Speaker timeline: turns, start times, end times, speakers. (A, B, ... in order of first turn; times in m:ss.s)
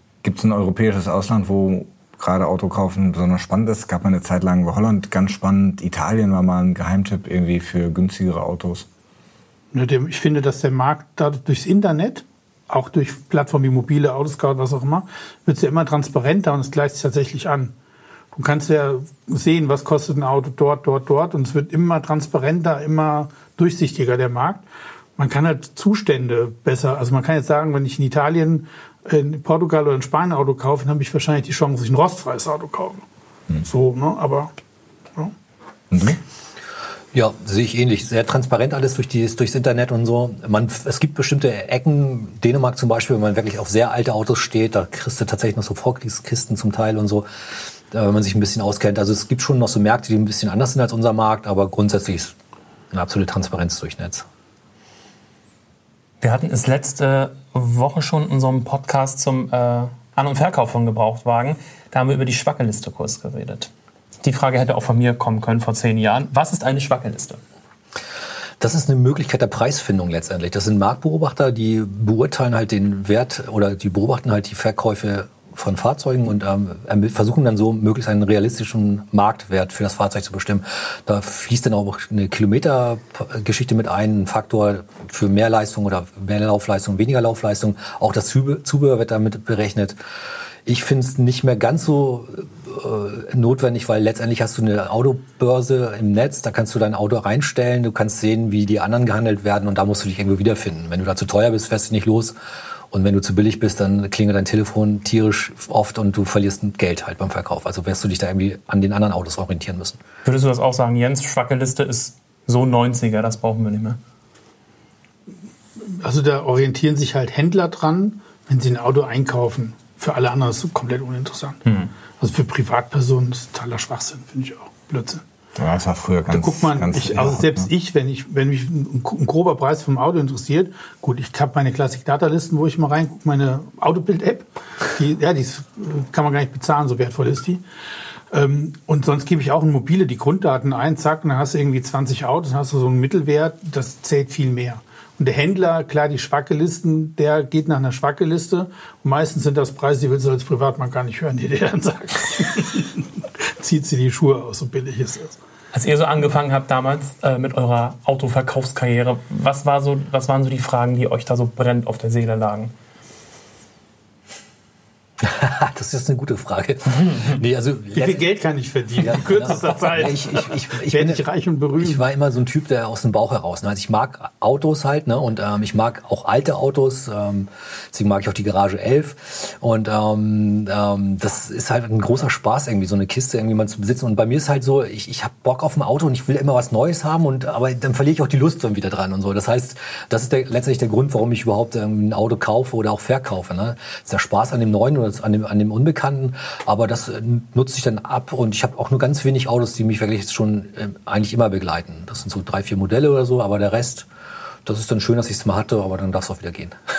0:00.2-0:08.8 A
0:09.7-0:17.7 B
0:18.3-0:24.6 B
0:25.2-0:33.0 B
0:33.6-0:34.5 B
0:35.9-0:36.2 A
0:37.1-0:47.3 C
0:47.9-0:52.3 C
0:52.9-0:54.2 C
0:56.2-1:03.7 D
1:04.2-1:07.4 D
1:08.6-1:30.0 C
1:30.6-1:42.3 C
1:42.9-1:50.0 C
1:50.2-1:54.0 D
1:55.8-2:01.6 B
2:01.6-2:01.9 D
2:02.2-2:05.2 B
2:05.6-2:07.7 A
2:06.3-2:17.6 B
2:18.3-2:35.4 B
2:35.7-2:42.7 D
2:45.2-2:48.2 C
2:47.9-2:52.0 B
2:49.0-2:51.2 C
2:51.8-3:24.1 C
3:24.6-3:26.7 C